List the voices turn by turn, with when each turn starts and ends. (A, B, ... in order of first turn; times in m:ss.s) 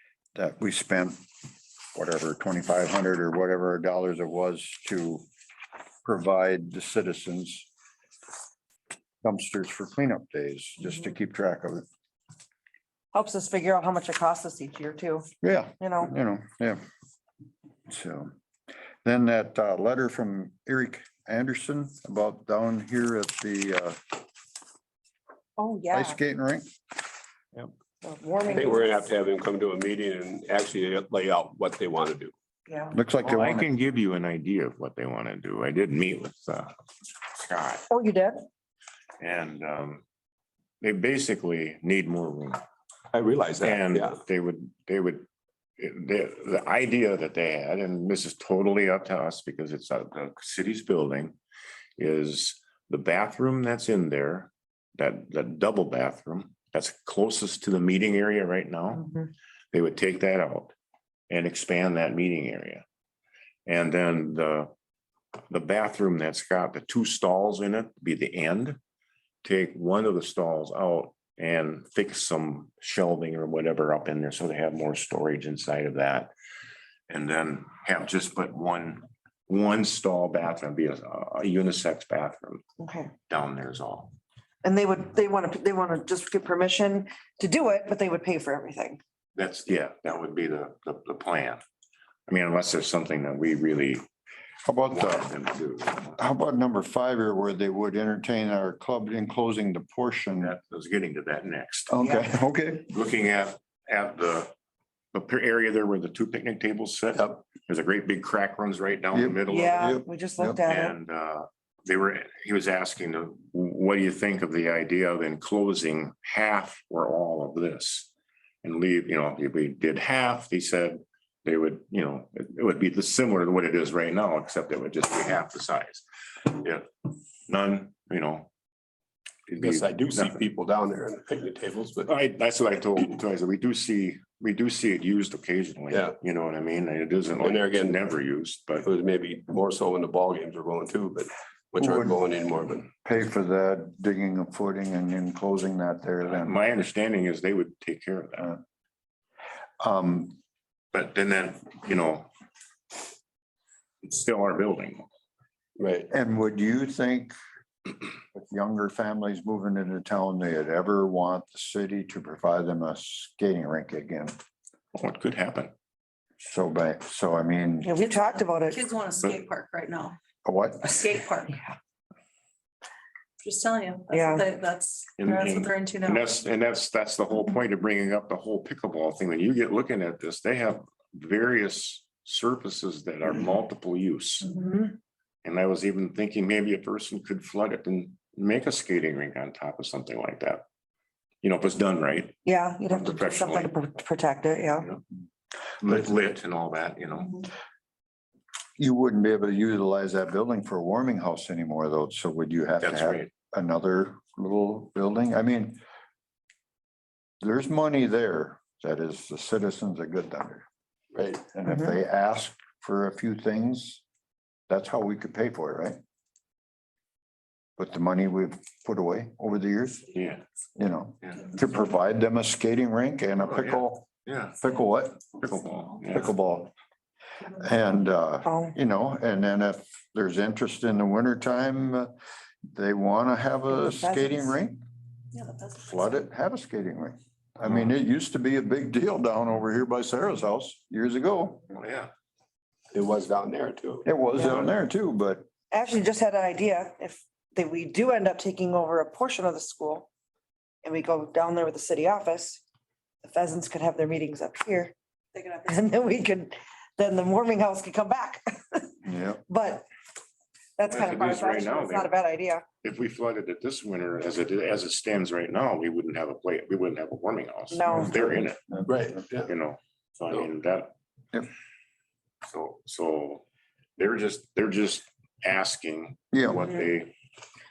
0:00.4-0:01.2 A
0:02.0-0:05.2 A
0:06.0-0:07.7 A
0:09.2-0:11.9 A
0:13.1-0:15.3 B
0:15.4-0:16.8 A
0:15.8-0:16.1 B
0:17.9-0:18.3 A
0:19.0-0:24.0 A
0:25.6-0:26.2 B
0:25.9-0:26.7 A
0:28.0-0:28.9 B
0:28.5-0:32.3 C
0:32.7-0:33.0 B
0:32.9-0:33.7 A
0:33.2-0:36.7 D
0:37.3-0:37.9 D
0:37.9-0:38.4 B
0:39.2-0:40.0 D
0:40.8-0:42.6 D
0:43.1-0:44.2 C
0:43.6-0:45.3 D
0:45.8-0:51.4 D
0:52.0-0:59.2 D
0:59.7-1:00.8 D
1:01.3-1:02.8 D
1:03.7-1:04.7 D
1:05.5-1:08.8 D
1:09.4-1:16.3 D
1:17.1-1:22.6 D
1:22.8-1:23.1 B
1:23.3-1:24.1 D
1:24.6-1:29.0 B
1:29.4-1:31.6 D
1:32.3-1:34.0 D
1:34.6-1:35.3 A
1:34.9-1:36.2 D
1:36.2-1:40.6 A
1:40.4-1:41.9 D
1:41.9-1:42.9 A
1:42.0-1:42.2 B
1:42.9-1:44.5 D
1:45.1-1:50.0 D
1:49.1-1:50.6 A
1:49.5-1:51.0 B
1:50.7-1:58.1 D
1:58.6-2:06.9 D
2:07.5-2:08.5 D
2:09.5-2:10.4 D
2:09.6-2:12.1 C
2:12.1-2:18.9 D
2:15.9-2:16.2 C
2:17.4-2:18.0 C
2:18.8-2:22.9 C
2:21.8-2:22.2 A
2:23.0-2:26.6 A
2:26.2-2:28.5 D
2:29.8-2:30.4 A
2:30.9-2:32.3 D
2:34.0-2:35.0 D
2:35.8-2:36.1 C
2:36.1-2:37.3 A
2:38.3-2:44.3 A
2:44.9-2:45.7 D
2:46.4-2:47.9 A
2:47.8-2:48.8 B
2:48.0-2:50.2 E
2:50.4-2:51.1 A
2:50.8-2:51.6 E
2:53.4-2:56.4 E
2:54.1-2:54.5 B
2:55.2-3:04.5 D
3:04.4-3:05.0 B
3:05.4-3:10.6 D
3:11.4-3:13.7 D
3:12.5-3:14.9 B
3:15.8-3:17.4 D
3:18.8-3:25.8 A
3:22.8-3:23.3 D
3:27.4-3:30.7 A
3:31.1-3:31.4 C
3:31.5-3:34.0 A
3:34.7-3:36.0 A
3:37.8-3:40.1 A
3:40.1-3:40.4 D
3:40.8-3:44.1 A
3:43.4-3:44.6 D
3:44.6-3:45.2 A
3:45.3-3:46.3 D
3:46.1-3:46.7 A
3:47.6-3:52.1 A
3:48.5-3:48.7 B
3:52.7-3:54.8 A
3:53.7-3:54.5 B
3:55.4-3:55.7 E
3:55.8-4:01.7 A
4:01.7-4:02.1 D
4:02.9-4:04.1 C
4:04.0-4:05.5 A
4:05.7-4:10.1 B
4:10.8-4:12.6 B
4:13.2-4:15.0 B
4:15.4-4:15.8 E
4:15.6-4:19.0 B
4:19.0-4:19.4 A
4:19.5-4:19.8 B
4:20.8-4:22.6 B
4:20.9-4:22.1 D
4:22.8-4:28.6 D
4:27.7-4:28.2 B
4:28.9-4:29.5 C
4:29.5-4:30.9 D
4:32.4-4:33.4 D
4:34.0-4:37.1 D
4:36.3-4:36.7 A